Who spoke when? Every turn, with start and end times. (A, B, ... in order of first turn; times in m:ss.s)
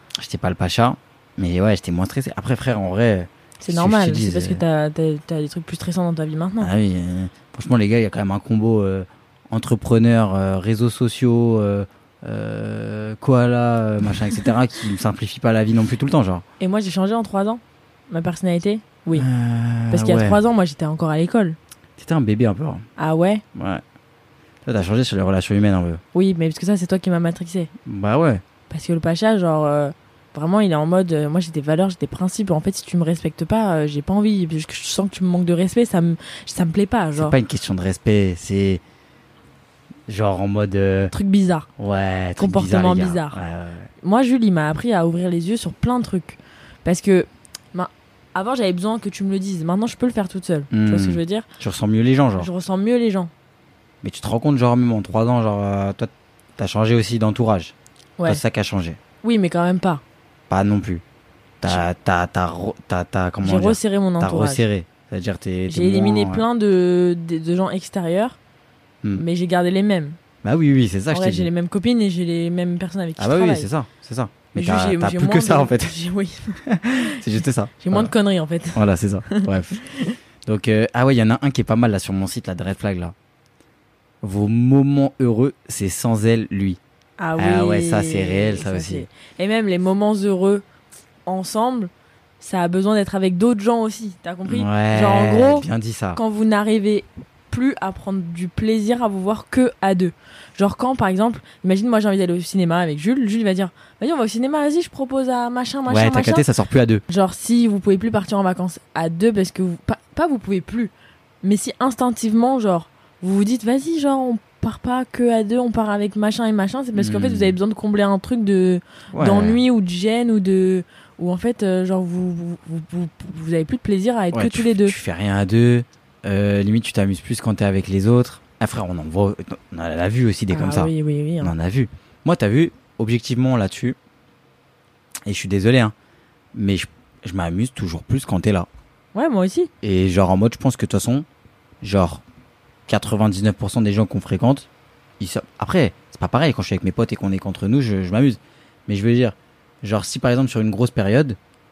0:00.2-0:04.6 A
0:03.6-0:06.7 B
0:06.6-0:16.4 A
0:16.6-0:19.3 B
0:19.1-0:20.4 A
0:19.9-0:21.6 B
0:22.0-0:22.8 A
0:23.0-0:23.4 B
0:23.5-0:23.8 A
0:24.6-0:26.0 A
0:26.1-0:27.7 B
0:27.8-0:28.4 A
0:28.7-0:37.3 B
0:37.1-0:38.8 A
0:40.1-0:41.1 A
0:41.1-0:41.7 B
0:41.8-0:43.9 A
0:42.4-0:43.4 B
0:44.0-0:51.4 B
0:50.7-0:52.5 A
0:52.4-0:53.3 B
0:54.0-0:57.7 A
0:58.2-0:59.0 A
0:59.2-1:00.0 B
1:00.5-1:01.0 A
1:01.6-1:06.4 A
1:03.4-1:04.6 B
1:05.7-1:08.4 B
1:09.1-1:10.2 B
1:10.4-1:11.5 A
1:11.1-1:13.7 B
1:13.2-1:16.0 A
1:14.5-1:17.2 B
1:16.6-1:18.1 A
1:17.8-1:20.2 B
1:18.7-1:19.8 A
1:20.4-1:23.1 A
1:24.2-1:26.8 A
1:27.2-1:30.6 B
1:27.4-1:29.1 A
1:31.3-1:46.4 B
1:34.4-1:36.2 A
1:45.9-1:47.0 A
1:47.1-1:50.9 B
1:51.4-2:04.9 B
1:56.9-1:57.6 A
1:59.1-1:59.6 A
2:04.3-2:14.0 A
2:10.5-2:11.5 B
2:15.2-2:15.9 A
2:16.5-2:18.7 A
2:19.1-2:19.7 B
2:19.8-2:21.2 A
2:21.8-2:22.2 A
2:22.9-2:24.7 A
2:25.2-2:31.4 A